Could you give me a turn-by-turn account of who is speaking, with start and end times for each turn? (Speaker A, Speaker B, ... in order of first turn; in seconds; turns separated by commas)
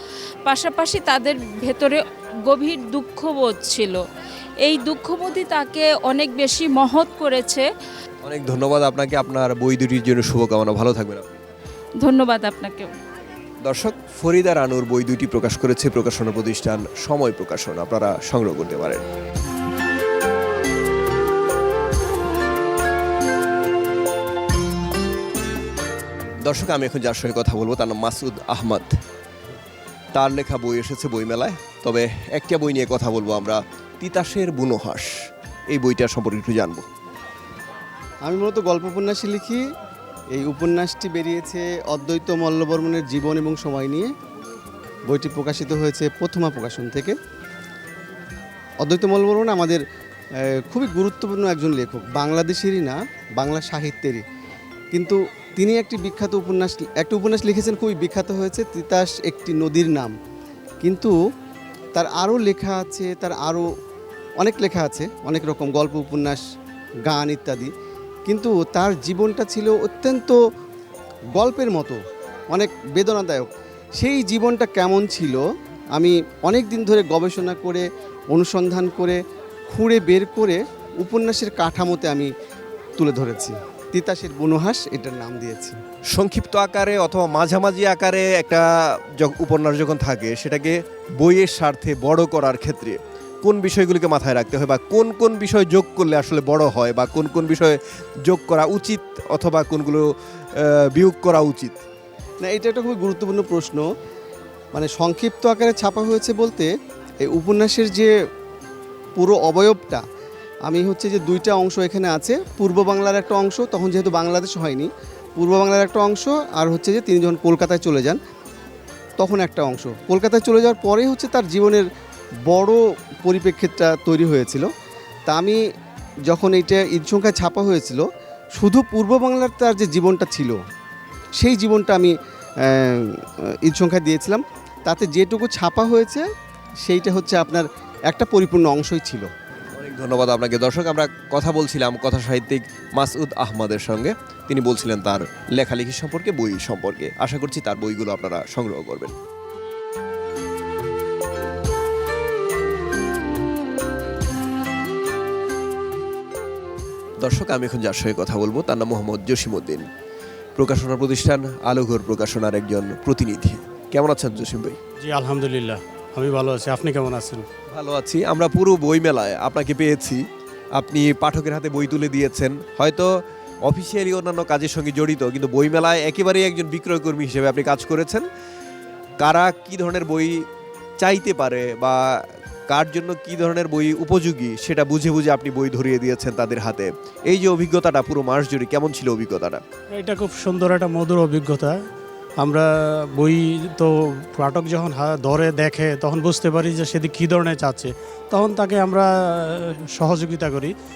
Speaker A: 0.5-4.0, Speaker A: 4.6-7.7, Speaker B: 8.2-11.3, Speaker A: 12.0-12.9, Speaker B: 13.6-19.0, Speaker B: 26.4-29.0, Speaker B: 30.1-35.1, Speaker B: 35.7-36.9, Speaker C: 38.2-39.6, Speaker C: 40.4-44.1, Speaker C: 45.1-47.2, Speaker C: 48.8-49.8, Speaker C: 50.7-54.2, Speaker C: 54.9-60.1, Speaker C: 60.8-61.1, Speaker C: 62.0-63.7, Speaker C: 64.4-66.4, Speaker C: 67.1-67.7, Speaker C: 68.3-70.4, Speaker C: 71.4-72.0, Speaker C: 72.5-75.4, Speaker C: 76.0-82.3, Speaker C: 83.0-85.8, Speaker B: 86.1-101.8, Speaker C: 102.4-103.8, Speaker C: 104.7-106.7, Speaker C: 107.2-108.1, Speaker C: 109.2-110.0, Speaker C: 110.7-118.2, Speaker C: 119.2-121.9, Speaker C: 122.5-124.7, Speaker C: 125.3-125.6, Speaker C: 126.3-128.0, Speaker C: 128.6-130.6, Speaker C: 131.4-136.2, Speaker C: 136.8-139.3, Speaker B: 139.7-149.2, Speaker B: 157.2-159.8, Speaker B: 160.6-164.8, Speaker D: 165.0-167.4, Speaker B: 167.7-170.2, Speaker B: 170.8-178.3, Speaker B: 179.2-180.5, Speaker B: 181.0-189.6, Speaker D: 189.9-191.8, Speaker D: 192.4-200.7